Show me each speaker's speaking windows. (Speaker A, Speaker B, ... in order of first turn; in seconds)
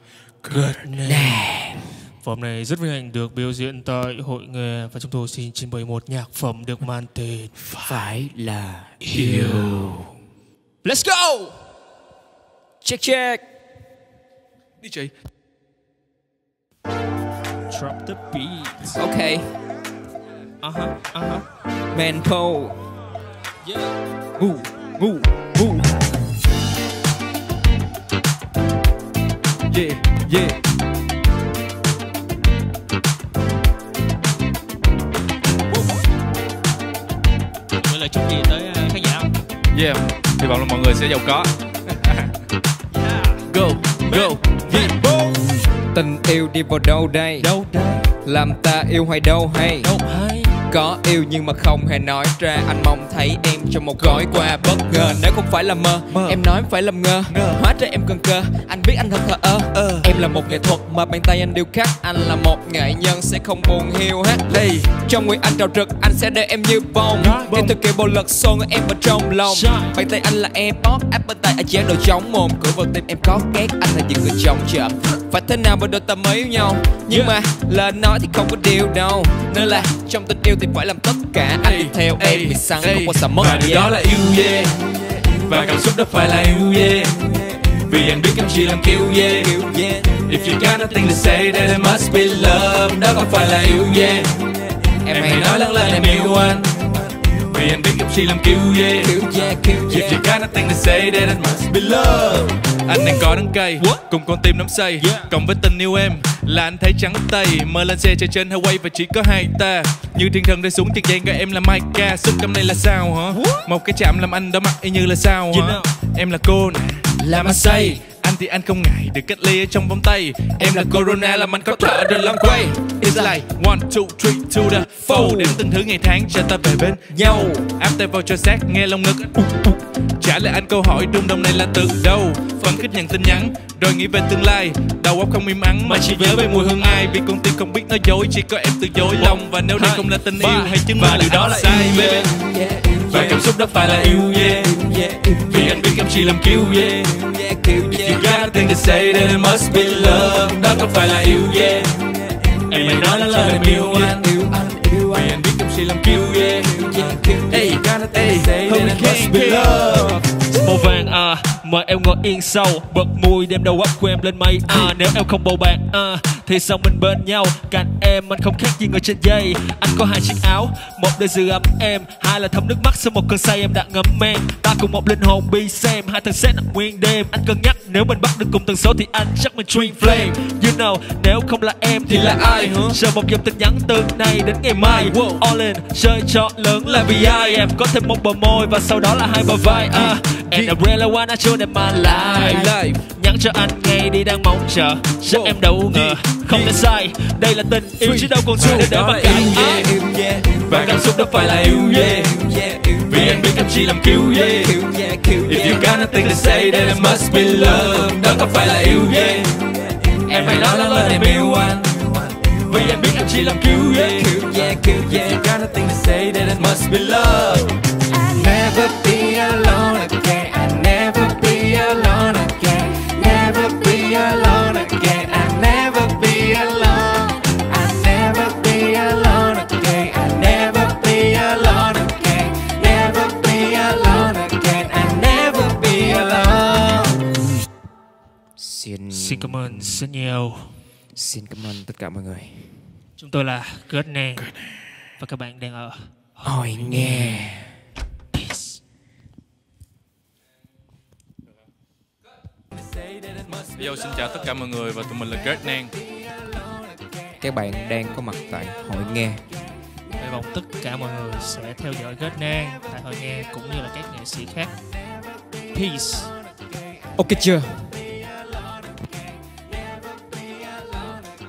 Speaker A: 0.5-1.5, 2.1-7.5, 17.7-19.0, 20.6-21.4, 23.6-23.9, 37.8-39.3, 42.9-43.5, 44.0-45.3, 47.4-48.1, 49.8-50.5, 69.4-69.9, 105.0-105.3, 113.3-113.7, 115.5-115.9, 135.8-137.1, 139.1-141.8, 152.7-154.1, 160.5-199.9, 200.7-202.3, 203.1-204.6, 210.2-211.8, 212.7-214.3, 239.1-240.8, 243.2-244.6, 245.2-247.5, 248.3-248.8, 260.2-264.7, 265.7-266.3
Speaker B: 0.5-1.9, 7.8-10.0, 10.8-11.5, 12.8-13.4, 18.9-19.5, 21.9-22.8, 24.4-25.9, 45.9-47.5, 48.2-49.9, 50.7-83.9, 89.4-90.2, 95.0-96.4, 99.0-100.2, 101.7-103.0, 117.2-118.0, 120.6-123.4, 125.0-125.6, 127.1-127.7, 141.4-143.4, 144.2-145.9, 147.1-148.5, 149.8-150.7, 153.8-155.3, 156.6-160.2, 182.1-183.0, 189.8-190.1, 192.0-193.0, 195.3-195.6, 198.6-200.7, 201.7-203.4, 204.3-209.5, 214.1-215.4, 216.6-237.2, 238.6-240.1, 241.1-242.9, 246.4-247.7, 257.4-259.4, 267.1-268.1
Speaker C: 7.7-8.0, 9.1-9.7, 14.8-15.1, 29.7-30.6, 39.7-42.3, 43.5-44.9, 54.0-55.2, 56.1-56.4, 57.3-57.6, 59.7-60.1, 64.5-65.0, 67.2-67.8, 81.6-94.5, 95.1-99.1, 99.8-101.7, 102.8-142.3, 143.0-144.9, 145.4-147.1, 147.8-152.0, 152.7-154.3, 155.1-160.2, 184.8-185.4, 186.8-187.5, 189.9-190.7, 195.9-196.7, 198.0-199.9, 200.6-202.3, 203.1-204.7, 205.4-209.6, 210.2-216.9, 253.6-255.9